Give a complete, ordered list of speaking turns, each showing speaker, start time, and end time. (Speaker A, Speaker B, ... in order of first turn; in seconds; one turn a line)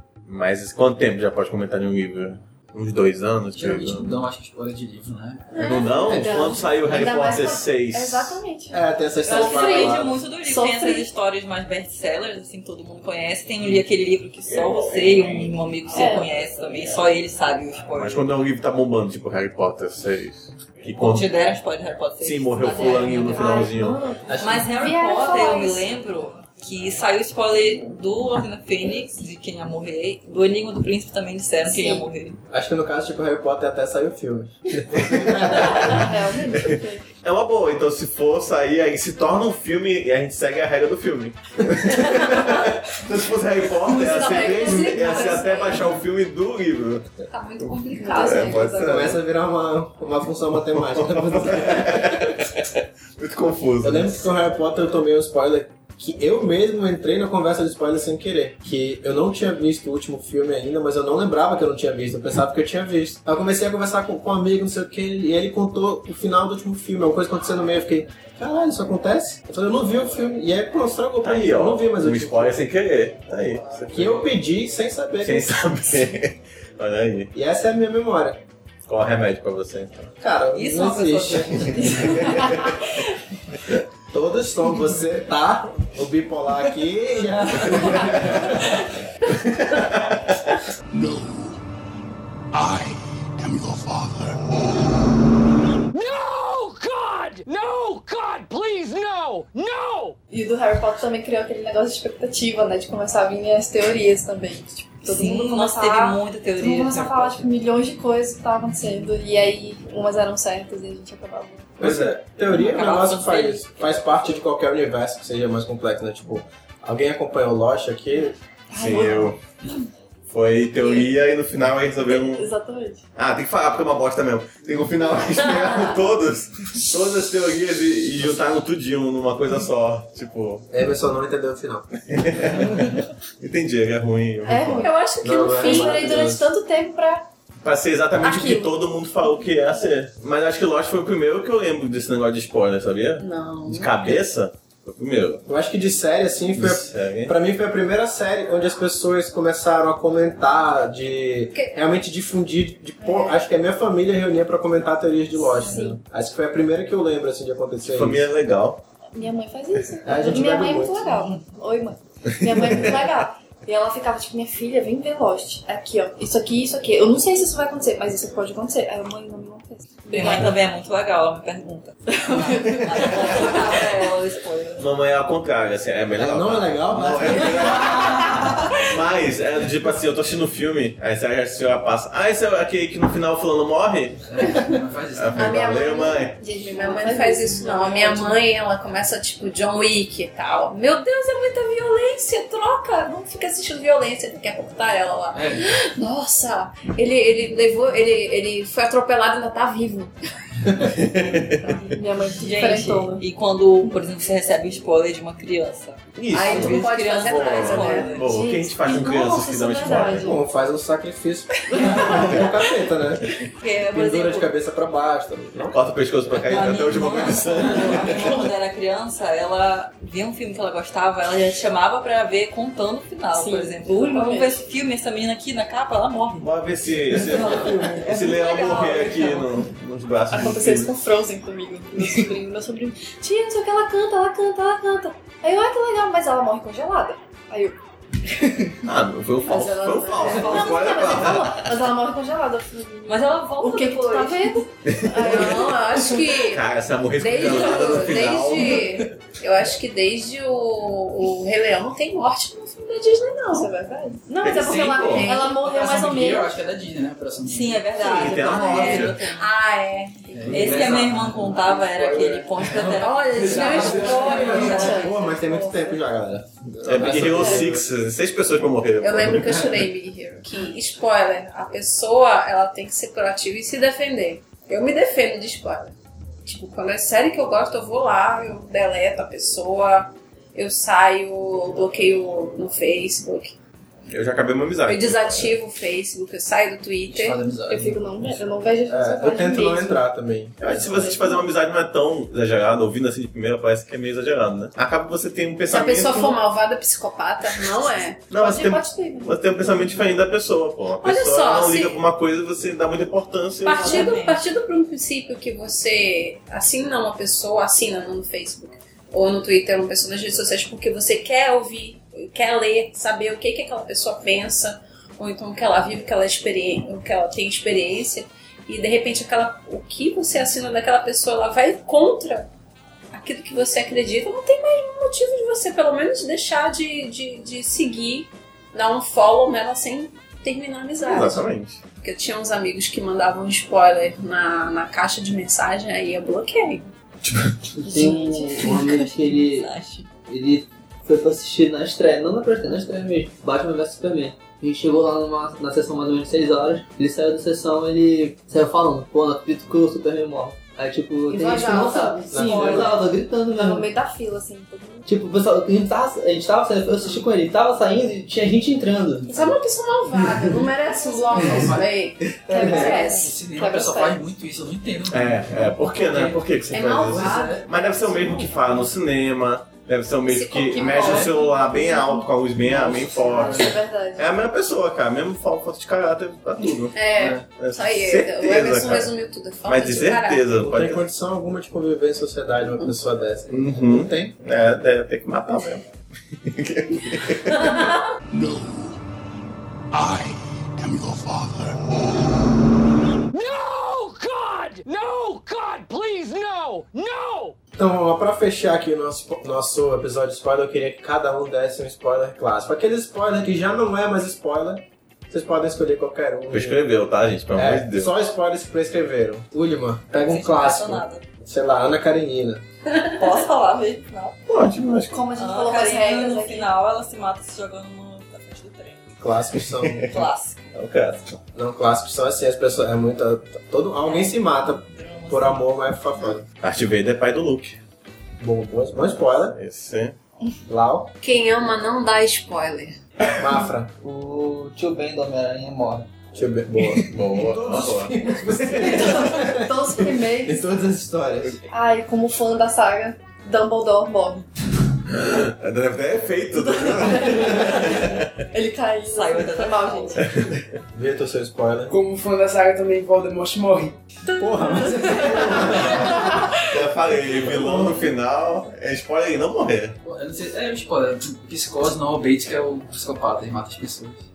Speaker A: 0.2-4.2
Speaker B: 3.5-5.5
Speaker C: 5.5-6.5
Speaker A: 5.5-8.4
Speaker D: 6.0-11.1
Speaker E: 8.7-10.2
Speaker F: 9.2-18.3
Speaker D: 15.9-16.3
Speaker A: 18.0-21.3
Speaker F: 21.0-23.7
Speaker A: 22.2-24.0
Speaker D: 22.6-25.9
Speaker E: 24.2-24.7
Speaker F: 24.4-32.4
Speaker D: 31.6-32.1
Speaker E: 32.5-36.0
Speaker A: 35.1-36.6
Speaker D: 35.6-37.1
Speaker A: 37.2-47.1
Speaker D: 43.9-45.9
Speaker C: 43.9-45.7
Speaker C: 47.3-48.8
Speaker D: 48.0-49.1
Speaker A: 48.0-49.2
Speaker E: 48.7-52.4
Speaker A: 50.7-54.3
Speaker E: 53.8-72.6
Speaker A: 71.2-74.2
Speaker E: 73.9-76.1
Speaker A: 75.2-77.3
Speaker E: 77.3-78.4
Speaker A: 78.8-80.1
Speaker E: 80.2-82.5
Speaker F: 80.5-82.1
Speaker D: 82.0-82.7
Speaker A: 82.2-82.7
Speaker E: 84.1-88.8
Speaker A: 87.7-88.4
Speaker G: 90.9-91.6
Speaker G: 92.5-94.4
Speaker H: 95.9-100.2
Speaker D: 100.3-111.8
Speaker F: 105.0-107.4
Speaker E: 111.8-118.3
Speaker A: 111.8-112.2
Speaker F: 112.5-113.9
Speaker D: 118.7-119.4
Speaker A: 118.7-119.4
Speaker A: 120.3-122.5
Speaker D: 120.8-121.1
Speaker D: 122.1-123.0
Speaker A: 123.2-130.7
Speaker E: 130.7-131.9
Speaker A: 132.1-134.9
Speaker D: 134.4-137.3
Speaker C: 134.8-136.0
Speaker E: 135.2-136.5
Speaker A: 137.6-145.4
Speaker D: 138.2-138.7
Speaker C: 143.2-143.9
Speaker E: 145.5-158.2
Speaker A: 146.6-147.3
Speaker C: 151.5-151.8
Speaker D: 155.4-156.0
Speaker A: 157.8-158.8
Speaker D: 159.1-170.6
Speaker E: 160.0-161.1
Speaker F: 170.1-174.8
Speaker D: 172.1-173.7
Speaker A: 174.8-186.4
Speaker E: 176.1-178.1
Speaker B: 184.2-185.6
Speaker C: 185.3-200.1
Speaker D: 186.4-188.4
Speaker B: 195.3-195.6
Speaker A: 200.8-201.8
Speaker D: 201.8-203.2
Speaker F: 202.4-208.3
Speaker A: 206.1-210.4
Speaker C: 206.3-208.1
Speaker D: 207.9-210.4
Speaker E: 209.9-213.3
Speaker D: 211.7-212.6
Speaker F: 213.6-214.5
Speaker E: 213.9-215.8
Speaker A: 215.7-218.4
Speaker F: 216.5-226.5
Speaker D: 223.3-224.6
Speaker A: 226.4-230.9
Speaker F: 227.1-229.6
Speaker D: 230.3-237.8
Speaker D: 238.3-238.8
Speaker A: 238.8-241.7
Speaker D: 239.4-245.9
Speaker F: 243.1-244.6
Speaker A: 244.8-249.1
Speaker C: 245.1-253.7
Speaker D: 253.5-256.6
Speaker A: 254.4-255.4
Speaker B: 255.3-258.0
Speaker F: 257.4-259.5
Speaker A: 258.0-259.2
Speaker C: 258.5-261.0
Speaker B: 260.3-264.8
Speaker F: 260.5-265.1
Speaker C: 263.0-265.1
Speaker D: 264.1-265.8
Speaker E: 264.7-267.9
Speaker A: 266.8-269.8
Speaker C: 269.0-275.9
Speaker C: 276.4-283.5
Speaker A: 284.1-285.6
Speaker C: 284.8-287.4
Speaker B: 287.1-288.4
Speaker D: 287.6-290.0
Speaker E: 288.9-290.9
Speaker A: 290.6-296.4
Speaker D: 290.7-291.4
Speaker C: 295.7-298.3
Speaker A: 298.3-304.1
Speaker D: 298.3-300.0
Speaker C: 301.0-302.0
Speaker C: 303.6-322.5
Speaker F: 303.7-304.4
Speaker D: 303.8-304.1
Speaker C: 323.1-331.5
Speaker A: 331.0-331.8
Speaker C: 332.0-336.9
Speaker I: 337.8-339.7
Speaker D: 337.8-339.0
Speaker F: 337.9-340.1
Speaker I: 340.2-353.9
Speaker C: 351.3-352.8
Speaker D: 351.6-355.0
Speaker E: 352.3-352.9
Speaker I: 355.1-359.6
Speaker C: 359.3-363.3
Speaker B: 361.3-361.9
Speaker D: 362.4-364.2
Speaker E: 362.4-362.9
Speaker B: 362.6-368.4
Speaker A: 365.1-377.0
Speaker C: 366.7-367.7
Speaker C: 370.3-371.4
Speaker D: 370.7-372.3
Speaker B: 372.6-373.2
Speaker D: 373.1-374.4
Speaker C: 376.9-380.5
Speaker B: 377.1-377.5
Speaker A: 377.6-379.1
Speaker A: 379.6-381.0
Speaker E: 380.6-384.3
Speaker A: 383.5-385.8
Speaker A: 386.4-387.8
Speaker G: 388.3-389.0
Speaker G: 389.9-392.3
Speaker H: 393.3-397.6
Speaker E: 397.8-406.8
Speaker A: 406.5-408.1
Speaker E: 407.5-412.6
Speaker F: 410.2-411.2
Speaker F: 413.1-414.4
Speaker A: 414.5-415.1
Speaker D: 415.1-416.7
Speaker F: 415.3-419.1
Speaker E: 419.2-420.2
Speaker A: 419.8-420.1
Speaker F: 420.1-420.6
Speaker A: 420.7-421.4
Speaker E: 421.5-426.4
Speaker F: 424.0-425.7
Speaker A: 426.6-427.8
Speaker E: 428.4-429.6
Speaker A: 429.5-430.1
Speaker E: 430.7-431.1
Speaker C: 431.2-433.0
Speaker E: 433.3-433.9
Speaker I: 434.0-436.1
Speaker E: 436.3-441.6
Speaker A: 437.1-438.2
Speaker D: 438.8-440.6
Speaker D: 441.7-444.5
Speaker A: 445.1-448.3
Speaker D: 446.5-450.3
Speaker F: 449.1-450.2
Speaker E: 450.9-451.9
Speaker J: 451.9-454.0
Speaker D: 454.2-456.4
Speaker E: 454.4-456.4
Speaker A: 456.2-460.0
Speaker E: 457.4-457.9
Speaker B: 460.0-464.3